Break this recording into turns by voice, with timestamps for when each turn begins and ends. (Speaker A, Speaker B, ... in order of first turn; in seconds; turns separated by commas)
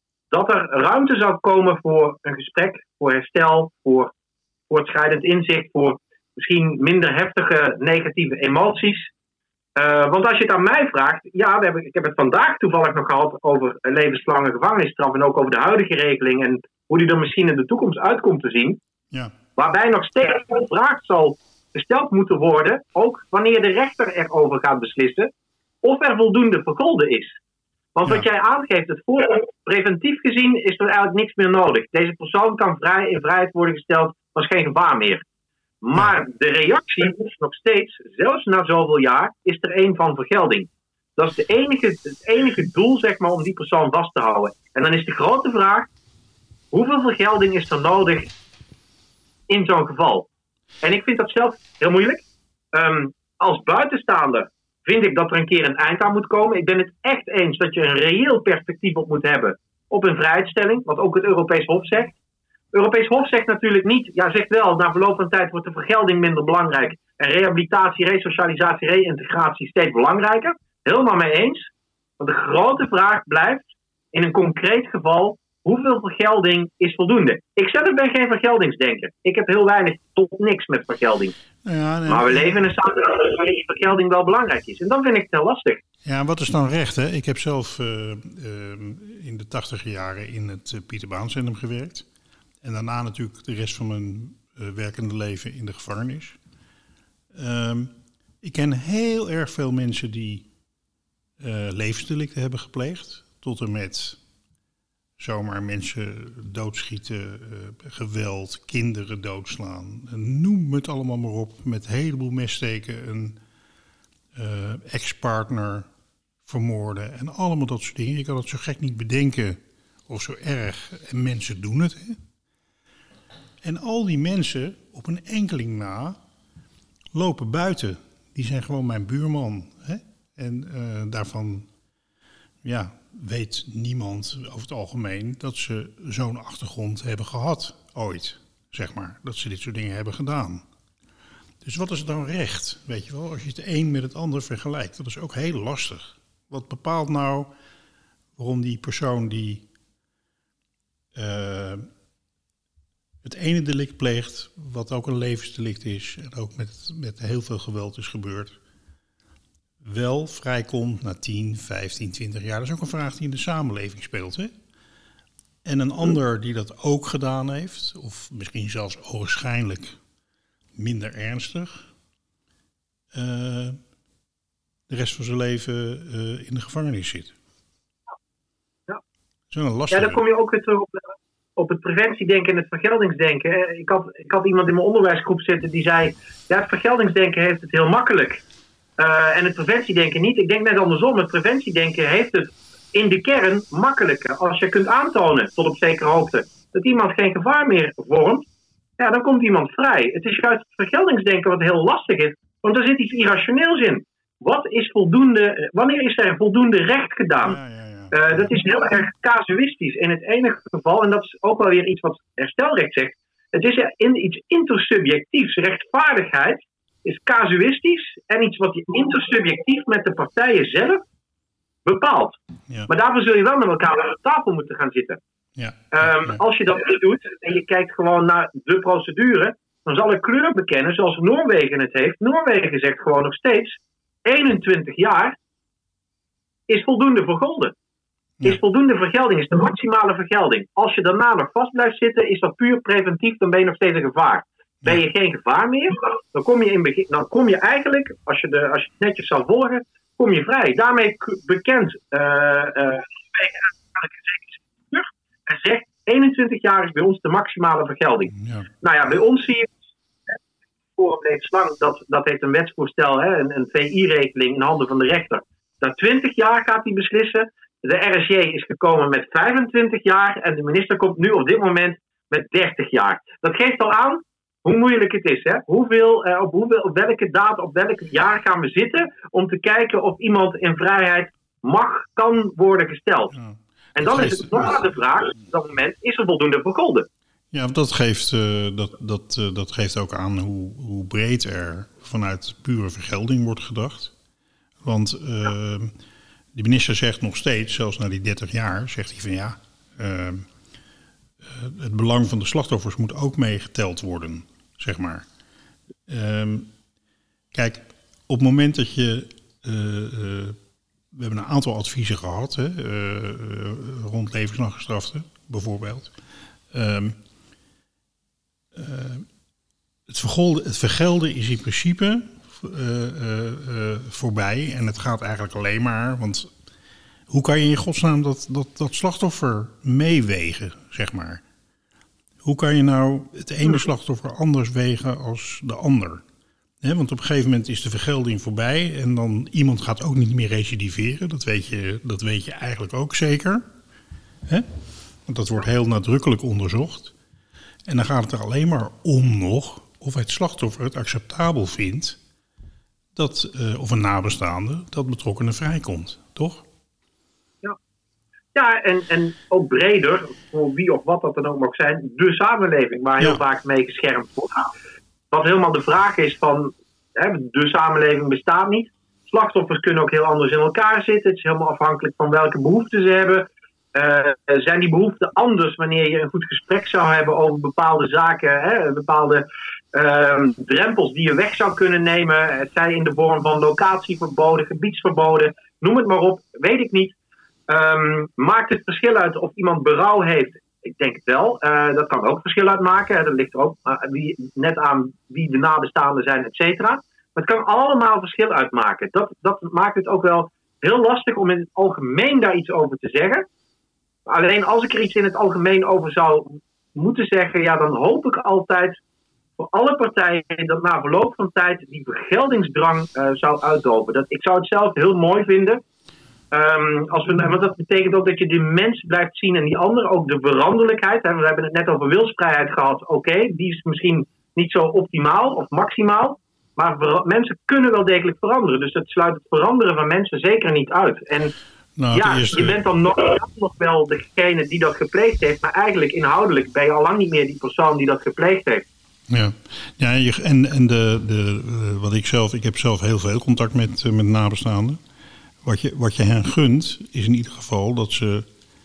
Speaker A: 0.3-4.1, Speaker A: 4.7-9.1, Speaker A: 9.8-18.8, Speaker A: 19.6-25.3, Speaker A: 25.8-27.4, Speaker A: 27.9-35.2, Speaker A: 35.8-45.9, Speaker A: 46.7-48.3, Speaker A: 49.5-50.3, Speaker A: 50.8-62.2, Speaker A: 62.7-81.3, Speaker B: 81.6-82.7, Speaker A: 82.1-85.8, Speaker B: 86.0-92.1, Speaker B: 92.6-96.4, Speaker B: 97.3-100.5, Speaker B: 101.4-104.2, Speaker B: 105.2-113.4, Speaker B: 114.3-115.9, Speaker B: 116.5-122.2, Speaker B: 123.6-126.2, Speaker B: 127.1-131.7, Speaker B: 132.6-140.7, Speaker B: 141.6-147.5, Speaker B: 148.4-149.7, Speaker B: 151.2-151.9, Speaker B: 153.2-158.6, Speaker B: 159.8-164.5, Speaker B: 165.6-170.0, Speaker B: 170.8-171.9, Speaker B: 173.1-173.8, Speaker B: 174.9-177.3, Speaker B: 179.5-180.2, Speaker A: 179.9-188.4, Speaker A: 189.0-198.5, Speaker A: 199.0-207.6, Speaker B: 207.5-208.5, Speaker A: 208.1-221.0, Speaker A: 221.8-225.2, Speaker B: 225.6-226.4, Speaker A: 225.9-235.4, Speaker A: 236.7-237.7, Speaker A: 238.4-259.7, Speaker B: 258.4-258.7, Speaker A: 261.0-283.4, Speaker B: 283.3-284.8, Speaker A: 284.0-287.1, Speaker B: 287.5-294.1, Speaker B: 294.8-295.9, Speaker B: 296.6-300.5, Speaker B: 301.4-305.2, Speaker B: 306.1-306.7, Speaker B: 307.5-310.6, Speaker B: 311.1-316.1, Speaker B: 316.7-317.2, Speaker B: 318.7-319.3, Speaker B: 320.1-326.5, Speaker B: 327.3-331.4, Speaker B: 332.4-336.2, Speaker B: 336.8-343.7, Speaker B: 345.3-347.1, Speaker B: 347.9-352.2, Speaker B: 353.1-356.7, Speaker A: 358.6-364.7, Speaker A: 365.3-387.1, Speaker A: 387.7-403.5, Speaker A: 404.3-409.0, Speaker A: 409.6-415.8, Speaker A: 416.5-431.5, Speaker B: 432.0-432.8, Speaker A: 432.1-438.9, Speaker B: 439.3-445.0, Speaker B: 445.6-448.5